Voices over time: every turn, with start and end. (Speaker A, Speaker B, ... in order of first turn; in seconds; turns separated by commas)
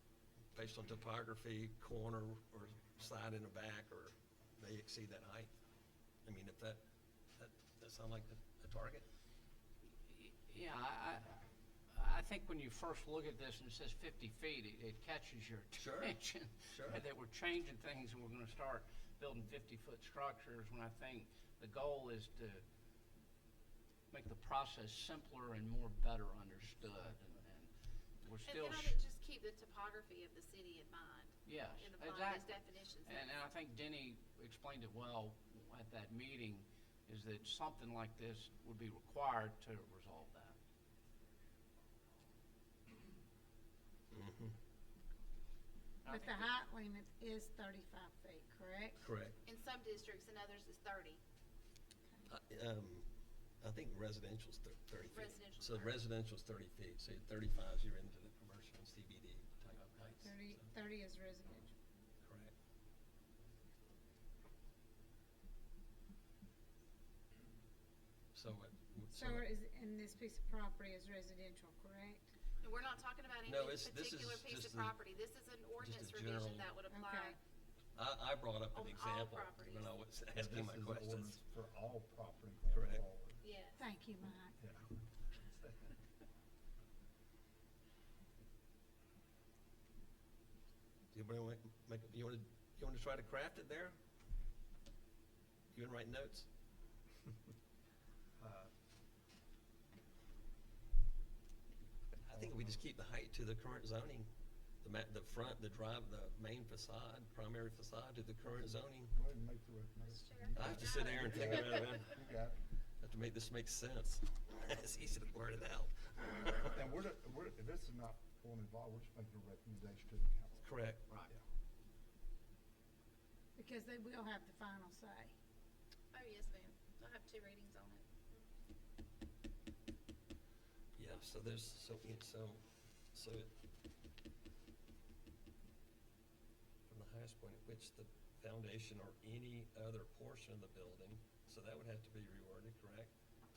Speaker A: 0.5-5.5, Speaker A: 6.2-6.8, Speaker A: 7.4-9.1, Speaker B: 10.0-11.4, Speaker B: 11.9-22.6, Speaker A: 15.8-17.0, Speaker B: 24.1-29.0, Speaker C: 28.4-33.3, Speaker B: 31.5-32.5, Speaker B: 33.0-40.6, Speaker A: 44.1-44.5, Speaker B: 46.0-46.5, Speaker D: 46.1-49.1, Speaker A: 49.0-49.4, Speaker C: 49.4-51.2, Speaker A: 52.3-53.1, Speaker A: 53.6-60.7, Speaker C: 55.1-56.0, Speaker D: 60.2-61.7, Speaker A: 62.2-62.5, Speaker A: 68.3-69.5, Speaker D: 69.1-72.3, Speaker C: 72.6-77.4, Speaker A: 73.5-75.0, Speaker A: 75.8-76.7, Speaker D: 76.9-77.3, Speaker A: 78.0-81.4, Speaker C: 78.7-79.9, Speaker E: 80.3-83.4, Speaker A: 82.7-83.0, Speaker C: 83.4-83.8, Speaker D: 83.8-84.6, Speaker E: 84.6-86.0, Speaker A: 91.1-94.0, Speaker A: 95.7-96.5, Speaker E: 98.4-98.7, Speaker A: 102.2-104.3, Speaker E: 102.3-102.8, Speaker A: 104.8-109.1, Speaker E: 108.5-112.6, Speaker C: 110.1-112.1, Speaker A: 110.5-112.2, Speaker A: 113.0-116.8, Speaker E: 116.7-120.7, Speaker A: 120.6-121.1, Speaker D: 123.5-125.3, Speaker C: 126.1-128.4, Speaker A: 130.9-132.6, Speaker A: 133.1-133.5, Speaker A: 136.9-143.1